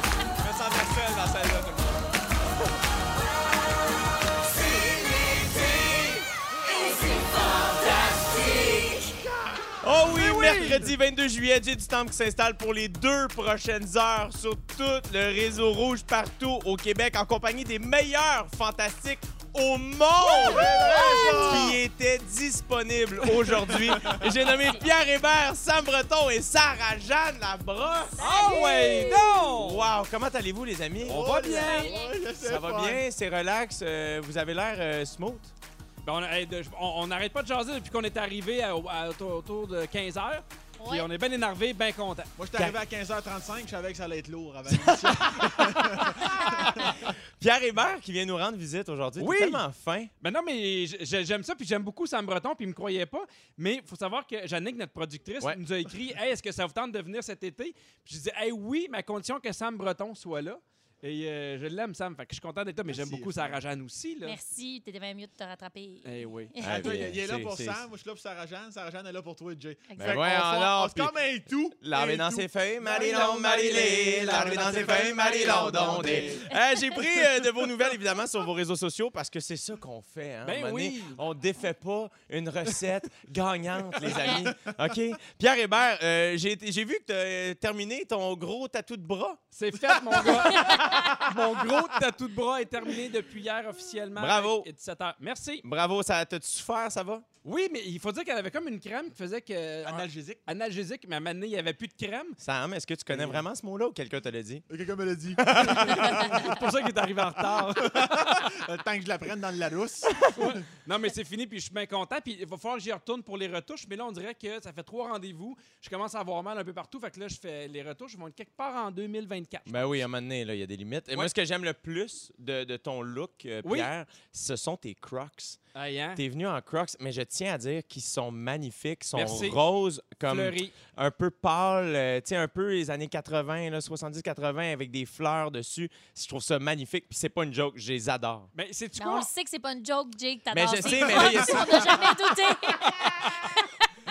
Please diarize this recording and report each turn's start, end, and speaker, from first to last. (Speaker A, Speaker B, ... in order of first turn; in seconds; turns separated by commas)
Speaker A: 0.4-2.0, Speaker B: 5.1-6.1, Speaker C: 6.7-8.9, Speaker B: 9.8-31.3, Speaker D: 20.2-21.8, Speaker C: 21.0-21.4, Speaker D: 23.2-24.2, Speaker C: 24.5-24.8, Speaker C: 28.2-29.3, Speaker A: 28.2-29.9, Speaker D: 31.0-33.0, Speaker A: 31.0-31.9, Speaker C: 31.4-32.2, Speaker B: 32.4-35.5, Speaker A: 36.0-42.3, Speaker C: 40.8-41.1, Speaker D: 42.4-47.1, Speaker B: 44.7-50.1, Speaker A: 49.2-49.6, Speaker A: 50.2-64.4, Speaker D: 62.9-63.6, Speaker C: 64.2-67.0, Speaker A: 66.0-66.5, Speaker B: 66.6-67.8, Speaker D: 66.6-76.4, Speaker C: 69.9-70.2, Speaker B: 70.0-71.1, Speaker B: 71.8-89.4, Speaker C: 76.5-77.0, Speaker A: 80.4-81.2, Speaker D: 84.0-84.7, Speaker A: 89.5-95.6, Speaker B: 90.5-91.3, Speaker C: 90.7-90.9, Speaker B: 94.2-94.7, Speaker B: 95.6-97.2, Speaker A: 97.4-102.4, Speaker D: 99.8-100.4, Speaker B: 102.4-104.6, Speaker D: 104.7-106.6, Speaker B: 105.4-106.4, Speaker A: 105.8-108.5, Speaker D: 107.8-110.3, Speaker A: 110.2-120.0, Speaker B: 119.7-125.6, Speaker A: 123.6-123.9, Speaker A: 125.8-126.2, Speaker B: 126.2-138.5, Speaker A: 129.2-129.6, Speaker A: 130.2-130.8, Speaker A: 138.5-139.3, Speaker C: 139.0-143.8, Speaker B: 140.5-142.2, Speaker D: 141.2-141.6